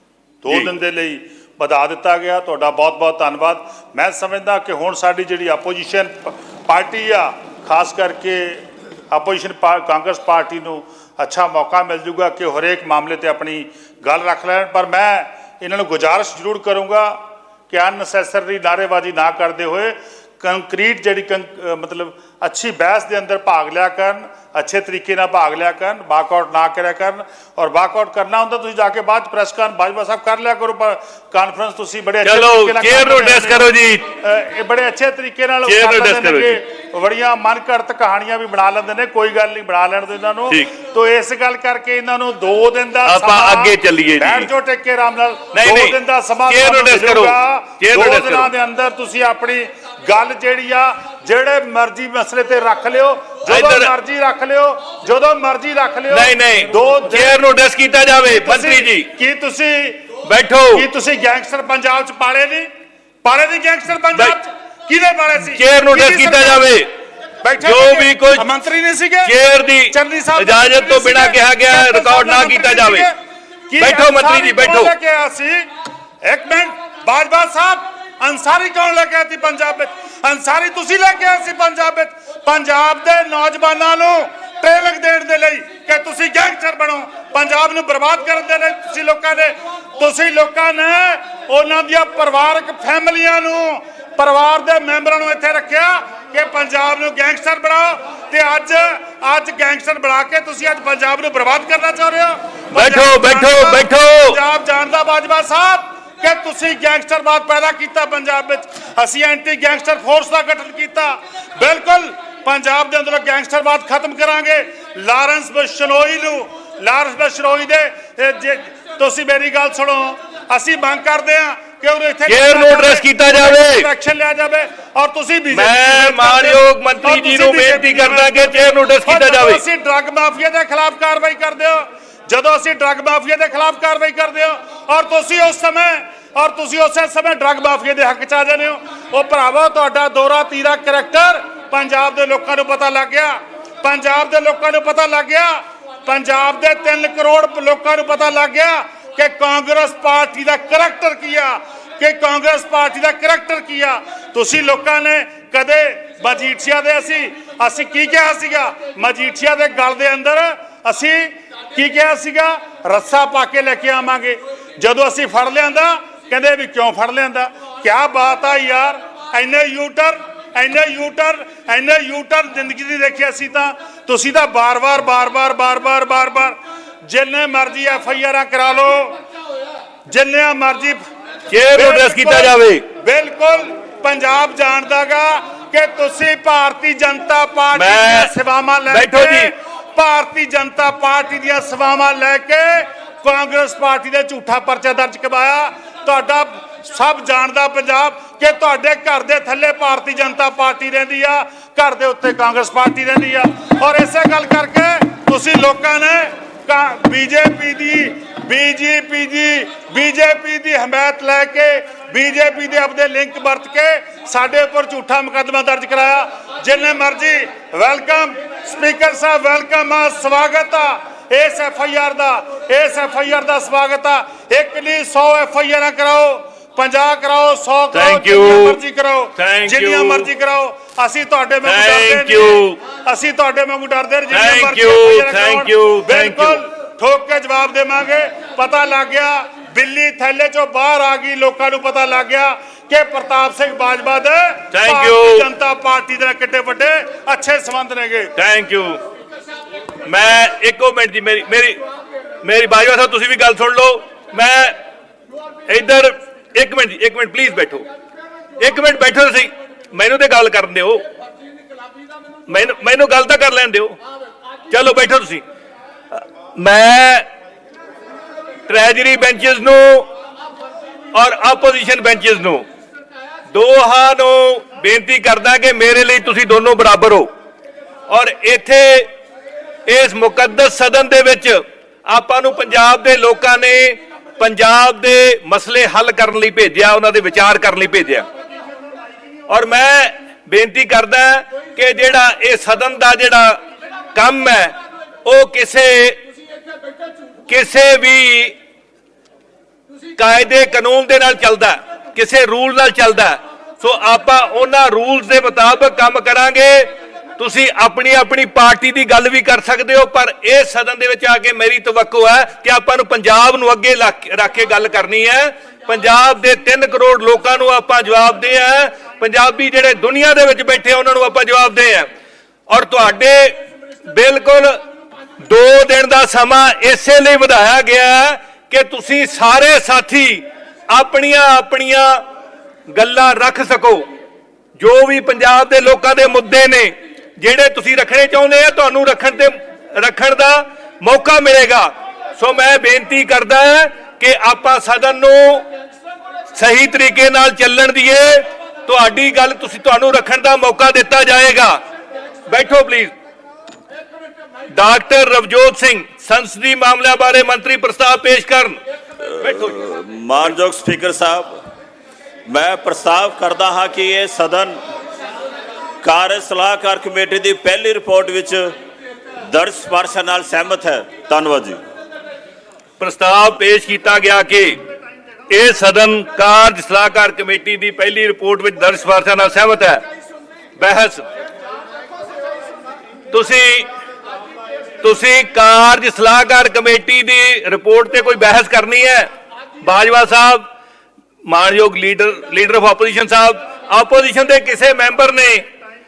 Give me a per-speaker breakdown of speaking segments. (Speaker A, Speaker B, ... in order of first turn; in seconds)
Speaker A: 0.4-57.4, 58.3-60.1, 60.7-62.7, 63.2-66.7, 67.4-69.4, 69.9-73.2, 73.7-75.7, 76.2-176.6, 177.1-179.2, 180.1-181.0, 181.7-248.3
Speaker B: 32.2-34.1, 35.7-36.6, 43.0-44.5, 45.5-46.0, 46.5-48.5, 53.5-53.9, 56.1-59.1, 60.2-60.9, 65.4-66.9, 67.6-68.5, 69.2-73.1, 73.8-74.9, 102.7-104.4, 122.3-123.9, 125.5-129.6, 181.5-182.9, 187.7-188.3, 188.9-189.5, 227.9-228.8, 229.4-230.3, 231.6-232.8, 234.3-236.6, 244.7-245.5, 248.4-249.0, 250.0-251.8, 252.4-254.8, 255.7-257.9, 258.6-261.0, 262.5-264.0, 264.7-265.4, 266.6-267.3, 268.7-270.1, 271.1-272.6, 273.5-277.3, 278.1-279.1, 279.9-288.3, 289.5-293.6, 294.1-294.7, 295.2-296.2, 297.5-298.6, 300.2-322.1, 322.7-324.8, 325.4-332.2, 332.9-334.1, 334.8-345.7, 346.5-351.8, 352.5-353.1, 354.7-358.8, 359.4-359.8, 373.0-374.8, 375.5-380.0, 380.8-381.2, 383.3-383.9, 385.0-389.3, 389.8-390.6, 391.5-395.7
Speaker C: 359.4-361.6, 362.5-364.8, 366.0-368.7, 369.5-371.8